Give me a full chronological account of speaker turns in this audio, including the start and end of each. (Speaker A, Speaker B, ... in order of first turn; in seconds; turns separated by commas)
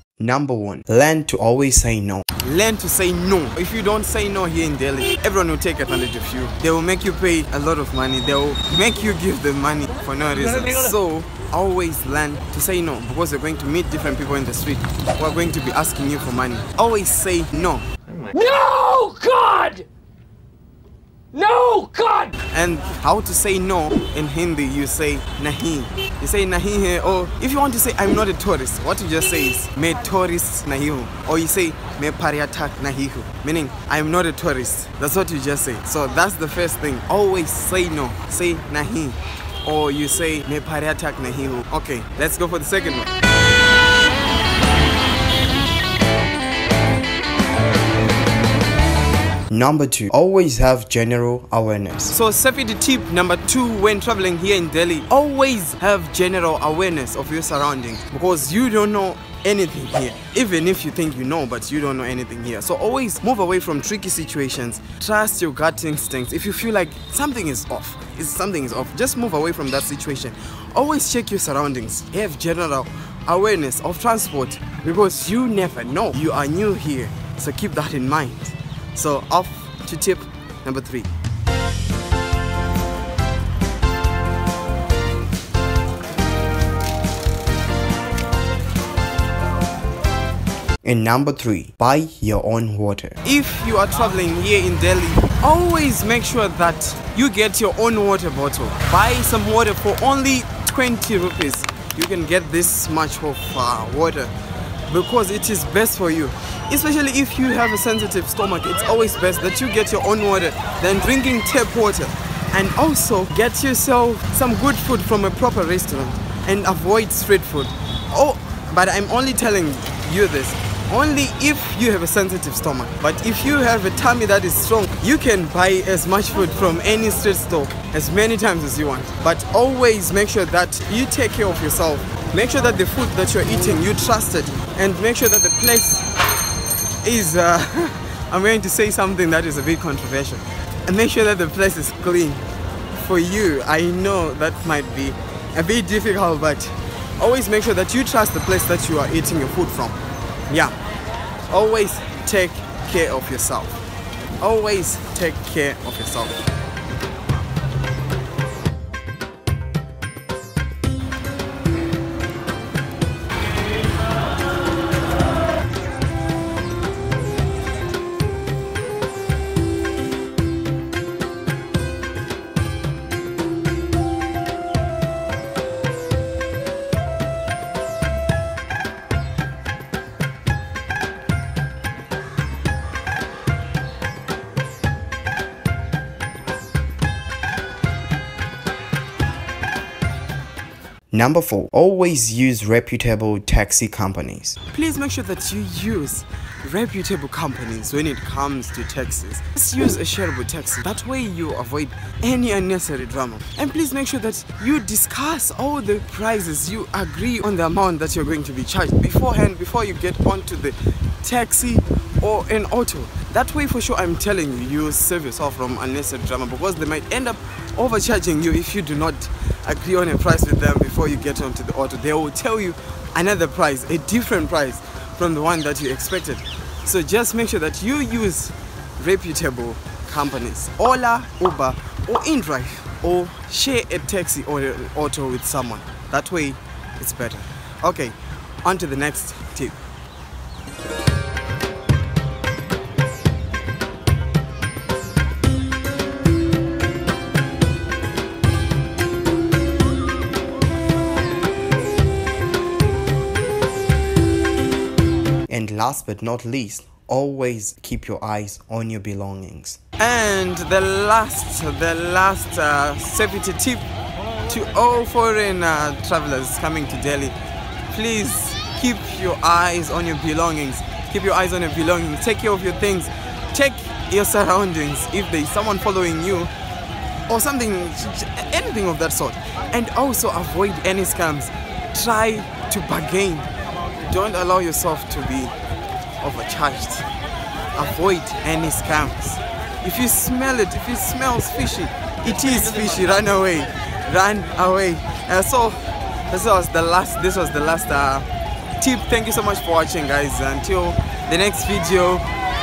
Speaker A: 0.2-2.2, Speaker B: 0.4-0.9, Speaker B: 2.2-17.8, Speaker C: 18.3-19.9, Speaker C: 21.3-22.4, Speaker B: 22.5-43.1, Speaker A: 49.5-52.0, Speaker B: 52.0-81.1, Speaker A: 90.8-93.2, Speaker B: 93.2-104.3, Speaker B: 104.9-136.1, Speaker B: 137.0-142.4, Speaker B: 142.9-150.0, Speaker B: 150.5-150.8, Speaker B: 151.5-153.7, Speaker B: 154.4-156.4, Speaker A: 191.1-194.5, Speaker B: 194.3-239.8, Speaker B: 255.5-263.8, Speaker A: 256.0-259.4, Speaker B: 264.5-267.4, Speaker B: 267.9-276.5, Speaker B: 277.3-283.5, Speaker B: 284.0-285.5, Speaker B: 286.2-287.1, Speaker B: 287.7-298.3, Speaker B: 298.8-302.2